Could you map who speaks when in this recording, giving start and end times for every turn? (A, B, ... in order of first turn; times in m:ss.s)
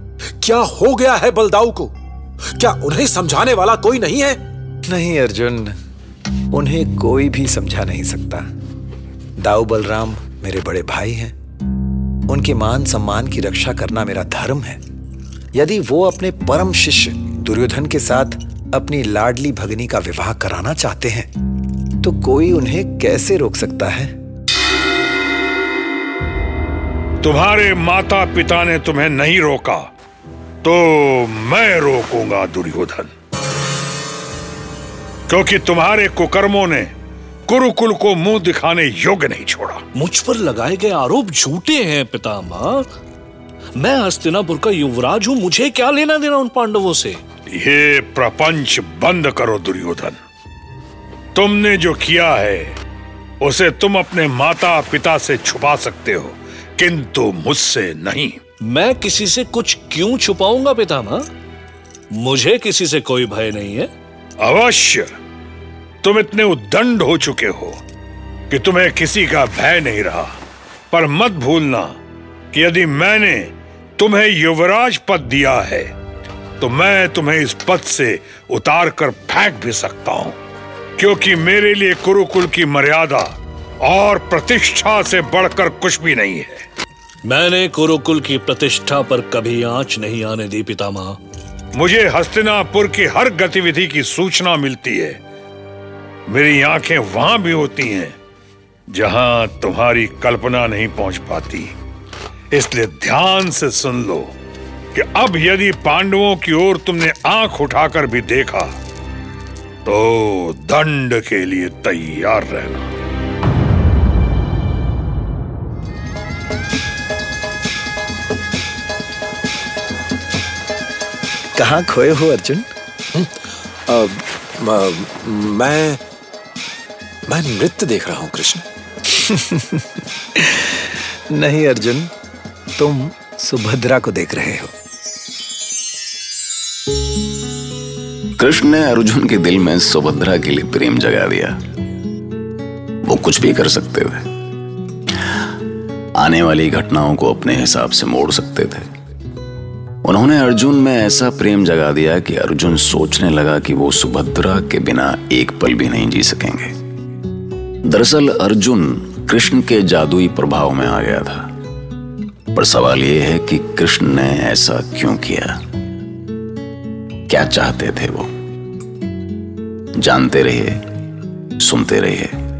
0:00.4-0:01.9 A
0:02.6-0:04.4 A
0:04.9-0:05.7 B
0:06.5-0:08.4 B
0:09.4-0:11.3 B
0:12.3-0:14.8 B
0:15.5-0:21.3 B
0:22.0-0:24.1 B
0:27.2-0:29.9 C
0:30.6-0:33.1 C
0:35.3-0:36.9 C
0:37.5-0:39.8 C
0:39.9-0:42.9 D
0:43.8-0:47.2 D
0:47.5-0:50.2 C
0:51.3-0:52.8 C
0:53.4-0:58.4 C
0:58.6-1:01.2 D
1:02.1-1:03.9 D
1:04.4-1:05.1 C
1:06.0-1:07.8 C
1:08.5-1:10.3 C
1:10.9-1:11.9 C
1:12.5-1:15.9 C
1:16.6-1:20.4 C
1:21.0-1:26.6 C
1:27.2-1:31.2 D
1:31.7-1:35.2 C
1:36.3-1:38.1 C
1:38.9-1:41.7 C
1:42.5-1:44.3 C
1:44.9-1:48.7 C
1:49.8-1:52.8 C
2:01.5-2:02.6 B
2:03.1-2:06.0 A
2:07.3-2:08.6 A
2:09.2-2:09.8 B
2:10.4-2:12.1 B
2:12.8-2:14.7 B
2:18.4-2:21.6 E
2:23.0-2:24.2 E
2:26.2-2:28.9 E
2:30.0-2:36.7 E
2:37.8-2:41.5 E
2:42.5-2:45.6 E
2:47.3-2:48.3 E
2:50.0-2:50.8 E
2:51.6-2:52.3 E